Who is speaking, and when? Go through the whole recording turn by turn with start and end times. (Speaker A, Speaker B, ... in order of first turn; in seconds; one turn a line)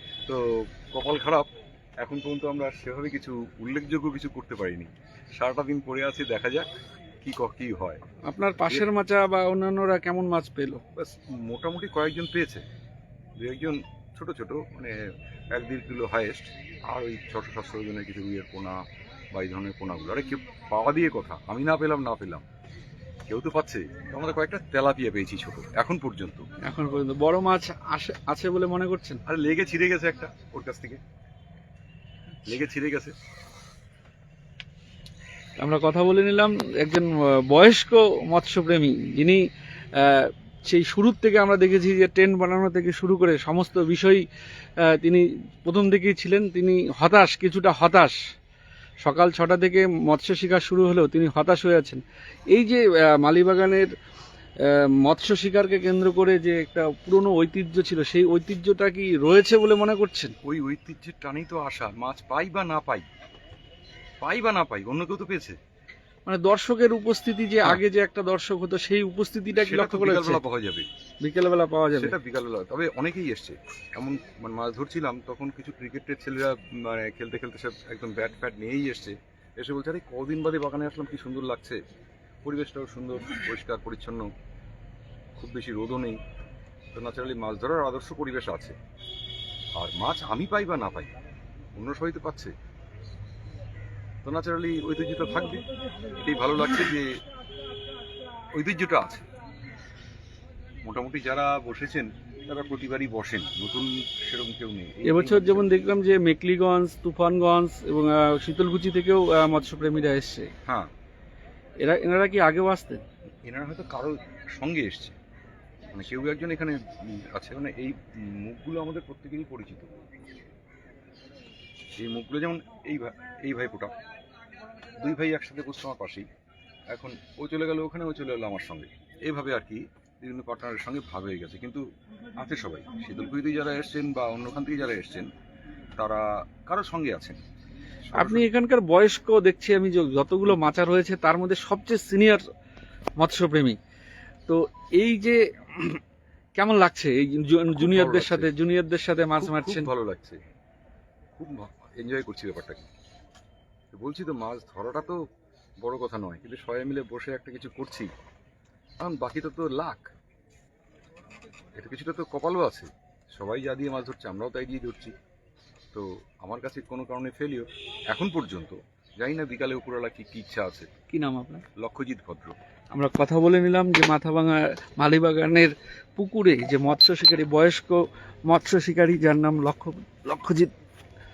Speaker A: 0.2-1.5
Speaker A: 2.0-6.7
Speaker A: 7.2-8.0
Speaker B: 8.3-10.8
Speaker A: 10.9-12.6
Speaker A: 13.4-14.9
Speaker A: 15.5-18.8
Speaker A: 19.3-22.4
Speaker A: 23.3-26.4
Speaker B: 26.6-29.2
Speaker A: 29.3-31.0
Speaker A: 32.5-33.1
Speaker B: 35.6-39.4
Speaker B: 40.0-44.2
Speaker B: 44.8-48.2
Speaker B: 49.0-53.9
Speaker B: 54.6-60.3
Speaker A: 60.4-63.0
Speaker A: 64.2-65.6
Speaker B: 66.2-70.4
Speaker A: 69.6-70.9
Speaker B: 71.2-72.2
Speaker A: 71.9-81.8
Speaker A: 82.4-84.3
Speaker A: 85.4-86.2
Speaker A: 86.9-88.8
Speaker A: 89.8-91.1
Speaker A: 91.7-92.5
Speaker A: 94.2-95.6
Speaker A: 96.2-97.2
Speaker A: 98.5-99.2
Speaker A: 100.8-105.8
Speaker B: 105.0-110.5
Speaker A: 110.7-110.9
Speaker B: 111.8-113.0
Speaker A: 113.4-115.2
Speaker A: 115.9-116.8
Speaker A: 117.3-119.9
Speaker A: 122.0-123.9
Speaker A: 124.9-126.3
Speaker A: 126.9-131.8
Speaker A: 132.4-135.3
Speaker A: 136.0-137.4
Speaker A: 138.1-138.5
Speaker B: 138.1-142.4
Speaker B: 143.2-143.8
Speaker B: 144.5-146.0
Speaker B: 146.6-149.9
Speaker A: 147.7-148.5
Speaker A: 149.4-150.4
Speaker A: 151.3-152.9
Speaker A: 153.9-155.2
Speaker A: 155.8-158.1
Speaker A: 159.0-160.1
Speaker A: 161.7-165.1
Speaker A: 165.9-170.9
Speaker B: 171.1-171.6
Speaker A: 171.8-172.6
Speaker B: 172.9-180.7